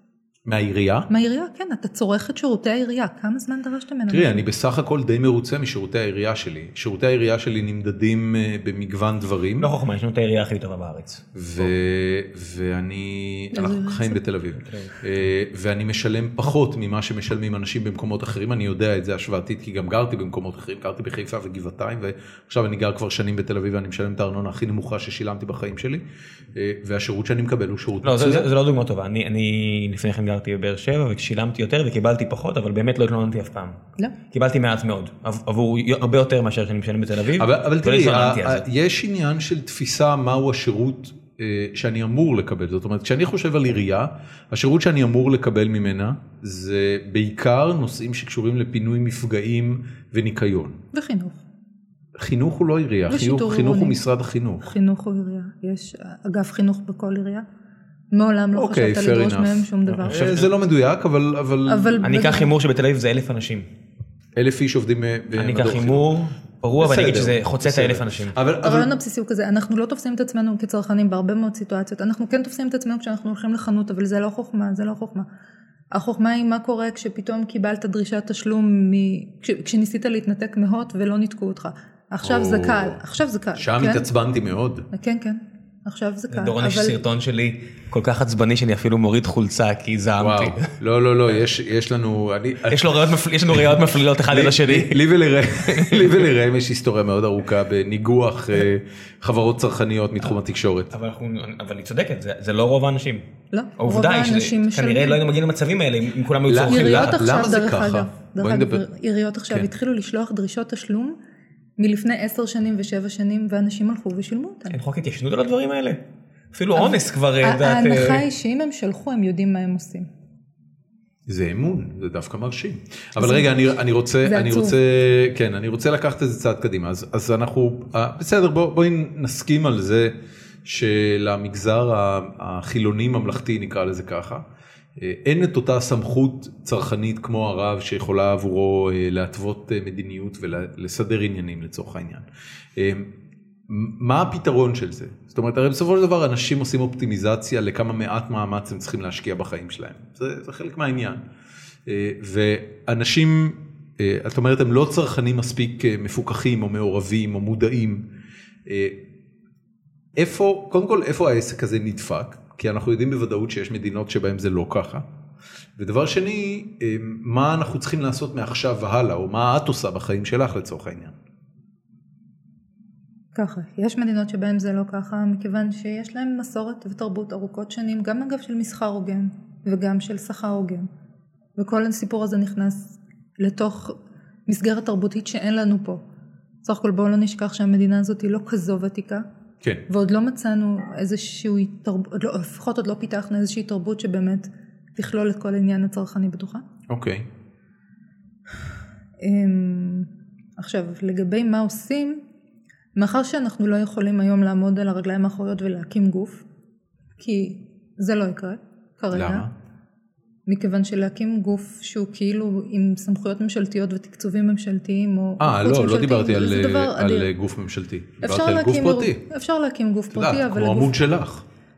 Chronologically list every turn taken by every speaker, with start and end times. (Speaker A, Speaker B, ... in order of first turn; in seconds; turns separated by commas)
Speaker A: 0.5-1.1, Speaker B: 1.1-4.4, Speaker A: 4.1-9.7, Speaker C: 9.6-11.2, Speaker A: 11.3-28.5, Speaker B: 13.5-14.2, Speaker C: 14.6-14.9, Speaker C: 28.0-38.6, Speaker A: 37.4-50.8, Speaker B: 50.9-51.4, Speaker A: 52.1-54.7, Speaker B: 53.1-54.0, Speaker B: 54.6-57.4, Speaker B: 58.1-60.3, Speaker A: 58.5-62.0, Speaker C: 60.1-60.5, Speaker B: 61.7-62.5, Speaker C: 62.0-63.7, Speaker A: 64.3-66.1, Speaker C: 65.3-68.3, Speaker A: 66.8-68.9, Speaker B: 68.6-75.3, Speaker B: 75.9-84.0, Speaker A: 82.2-83.0, Speaker A: 83.6-84.8, Speaker B: 84.9-87.0, Speaker C: 86.3-90.7, Speaker A: 90.2-93.7, Speaker C: 92.7-95.0, Speaker A: 94.3-100.9, Speaker C: 95.7-96.3, Speaker C: 100.9-103.3, Speaker B: 103.5-105.2, Speaker C: 103.8-107.3, Speaker A: 106.5-108.8, Speaker B: 106.7-111.2, Speaker B: 111.8-114.8, Speaker C: 114.7-118.2, Speaker B: 116.7-120.1, Speaker A: 121.3-134.4, Speaker B: 123.2-123.6, Speaker B: 124.2-124.8, Speaker A: 135.0-143.1, Speaker A: 143.7-151.2, Speaker A: 151.8-158.1, Speaker A: 158.7-159.0, Speaker A: 160.2-165.0, Speaker A: 165.8-171.1, Speaker B: 173.3-180.9, Speaker B: 181.6-186.0, Speaker B: 186.6-189.2, Speaker B: 189.9-196.6, Speaker A: 196.9-197.3, Speaker B: 199.2-202.2, Speaker B: 202.9-206.4, Speaker B: 207.2-209.4, Speaker A: 209.1-209.5, Speaker B: 210.5-217.3, Speaker A: 215.4-219.2, Speaker B: 218.2-221.0, Speaker A: 220.1-221.4